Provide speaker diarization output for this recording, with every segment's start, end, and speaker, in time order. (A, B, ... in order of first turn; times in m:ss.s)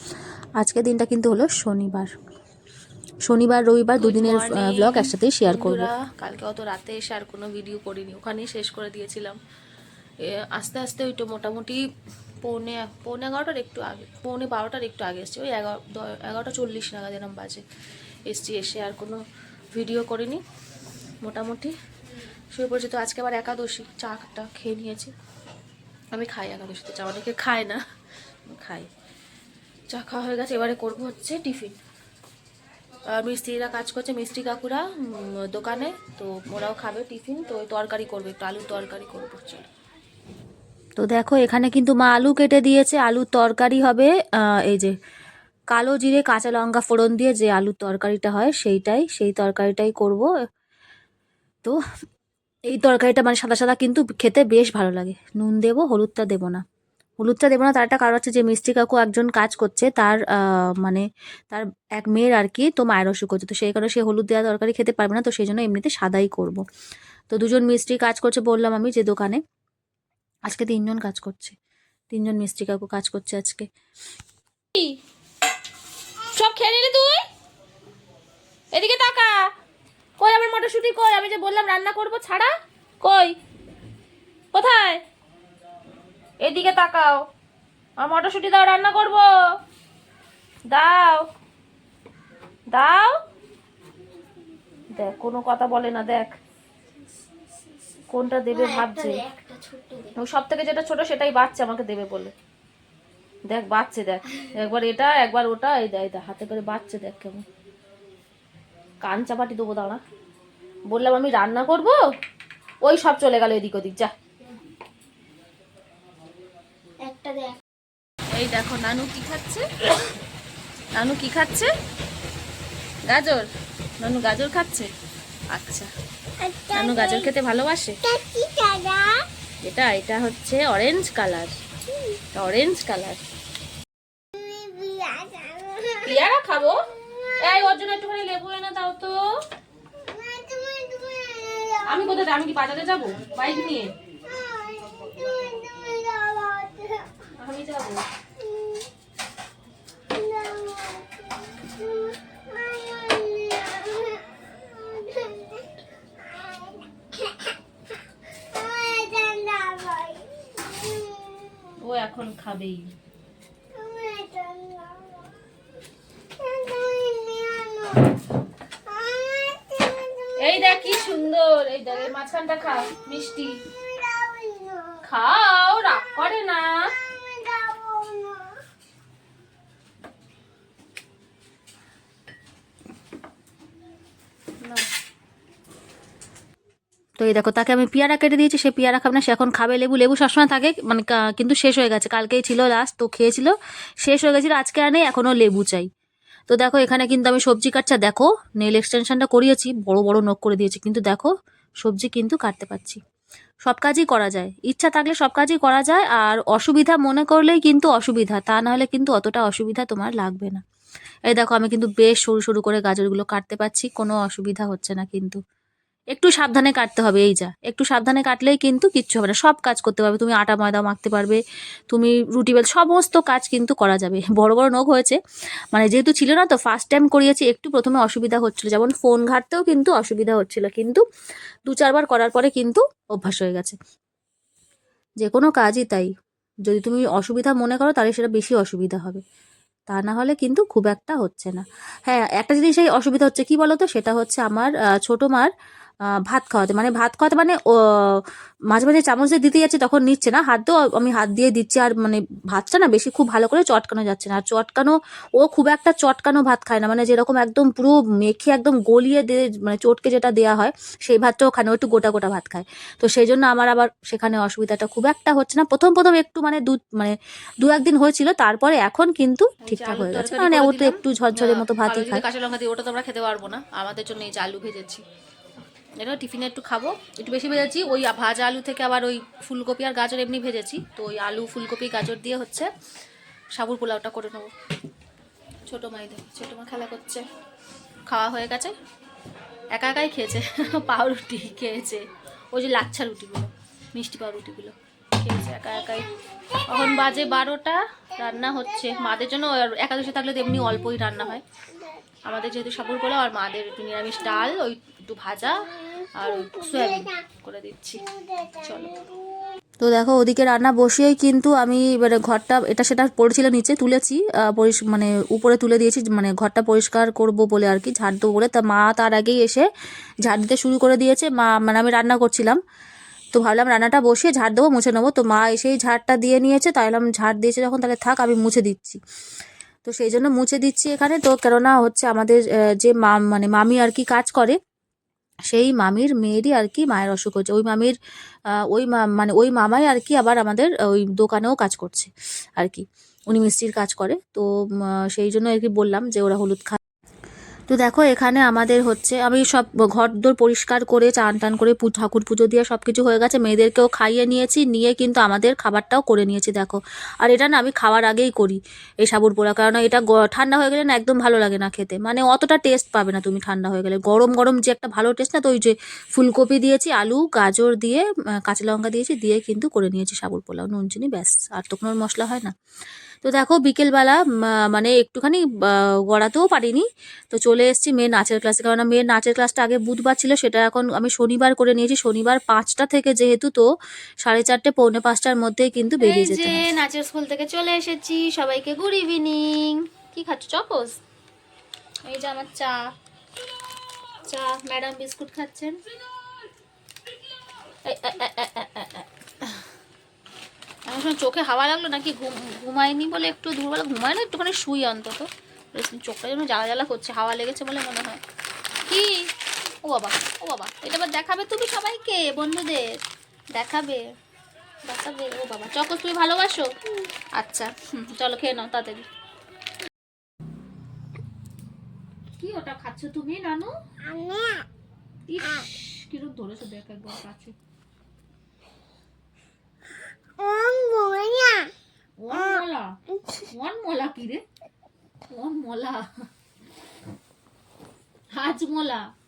0:00.6-0:02.1 A
0:03.2-0:05.9 A
0:04.0-0:09.4 B
0:10.4-0:11.8 B
0:12.4-0:17.6 B
0:18.3-0:19.2 B
0:19.7-0:20.4 B
0:21.2-0:21.7 B
0:22.5-0:25.1 B
0:26.1-0:27.8 B
0:28.4-0:28.9 B
0:29.9-0:31.8 B
0:33.1-0:39.7 B
0:41.0-0:44.1 A
0:44.6-0:44.9 A
0:45.7-0:50.3 A
0:52.7-0:56.6 A
0:57.2-1:06.6 A
1:07.3-1:09.4 A
1:10.5-1:11.6 A
1:12.1-1:13.7 A
1:16.3-1:17.2 B
1:18.7-1:19.5 B
1:20.2-1:23.4 B
1:24.5-1:25.0 B
1:26.4-1:27.2 B
1:28.0-1:29.2 B
1:30.7-1:31.2 B
1:32.7-1:33.2 B
1:34.9-1:36.3 B
1:38.1-1:39.2 B
1:38.5-1:40.1 C
1:40.2-1:42.3 B
1:43.5-1:47.4 B
1:49.0-1:50.0 B
1:50.9-1:52.0 B
1:52.8-1:54.1 B
1:57.1-1:57.6 C
1:58.3-1:59.7 B
2:00.9-2:01.7 B
2:03.1-2:03.4 B
2:04.0-2:04.9 B
2:05.5-2:05.9 B
2:06.4-2:07.3 C
2:06.7-2:08.0 B
2:08.0-2:09.2 C
2:09.6-2:11.6 B
2:12.3-2:13.2 B
2:14.3-2:16.1 C
2:16.0-2:16.8 B
2:17.4-2:19.2 B
2:20.0-2:22.1 C
2:21.8-2:23.9 B
2:24.3-2:27.1 C
2:27.4-2:28.0 B
2:28.4-2:28.8 C
2:30.1-2:37.5 C
2:38.5-2:41.7 C
2:41.8-2:42.9 B
2:43.7-2:45.4 C
2:46.4-2:48.2 C
2:48.8-2:51.2 C
2:50.4-2:53.6 B
2:53.8-2:55.0 C
2:55.0-2:56.9 B
2:57.0-2:58.5 C
3:07.2-3:15.9 A
3:16.5-3:23.0 A
3:23.6-3:30.6 A
3:31.3-3:35.4 A
3:36.1-3:45.2 A
3:45.7-3:51.0 A
3:51.7-3:53.8 A
3:55.2-3:56.1 A
3:56.7-3:59.2 A
3:59.9-4:05.5 A
4:06.3-4:32.2 A
4:29.6-4:35.0 B
4:36.0-4:42.7 B
4:43.6-4:44.5 B
4:45.7-4:47.2 B
4:48.1-4:48.7 B
4:49.7-4:56.1 B
4:56.7-5:01.4 B
5:02.2-5:09.0 B
5:09.8-5:19.7 A
5:20.2-5:22.6 A
5:23.3-5:29.0 A
5:29.8-5:34.6 A
5:35.5-5:37.9 A
5:38.6-5:44.4 A
5:45.1-5:46.8 A
5:47.7-6:12.5 A
6:13.2-6:23.6 A
6:24.2-6:26.6 A
6:26.0-6:31.0 B
6:32.1-6:32.8 B
6:34.1-6:35.7 B
6:37.6-6:39.6 B
6:40.8-6:48.2 B
6:48.9-6:49.3 B
6:49.8-6:52.8 B
6:53.5-6:54.0 B
6:54.8-6:56.7 B
6:57.3-6:59.0 B
7:02.4-7:03.7 B
7:04.0-7:04.6 C
7:05.3-7:07.5 B
7:10.4-7:11.7 C
7:12.2-7:13.0 B
7:13.5-7:14.4 B
7:15.3-7:16.1 B
7:18.3-7:19.1 B